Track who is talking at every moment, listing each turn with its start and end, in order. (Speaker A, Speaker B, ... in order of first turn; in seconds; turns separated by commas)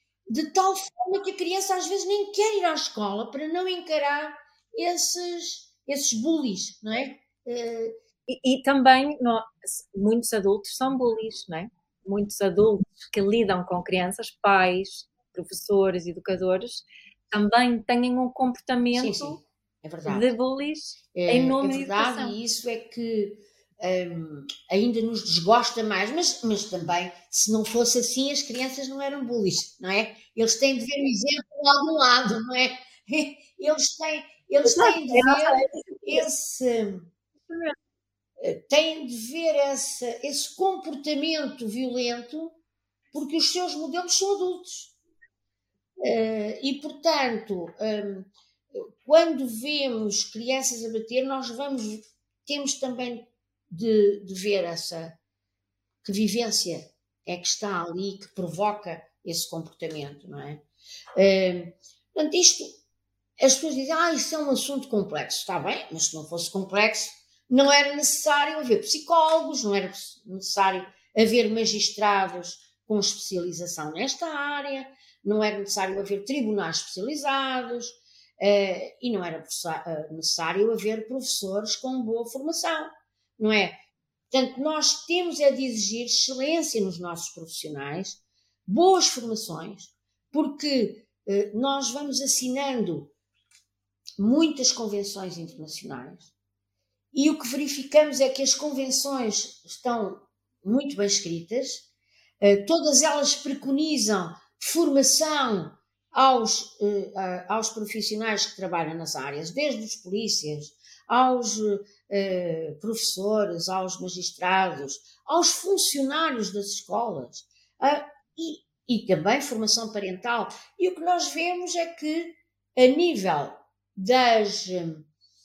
Speaker A: 0.3-8.0, Speaker B: 8.3-19.4, Speaker A: 18.9-20.3, Speaker B: 20.1-22.4, Speaker A: 21.1-37.1, Speaker B: 34.6-36.3, Speaker B: 37.5-37.8, Speaker A: 38.4-42.6, Speaker A: 43.1-44.9, Speaker A: 46.0-55.2, Speaker A: 56.0-60.6, Speaker A: 61.2-62.8, Speaker A: 63.4-83.8, Speaker A: 84.3-93.1, Speaker A: 94.2-96.3, Speaker A: 97.1-101.9, Speaker A: 102.4-125.1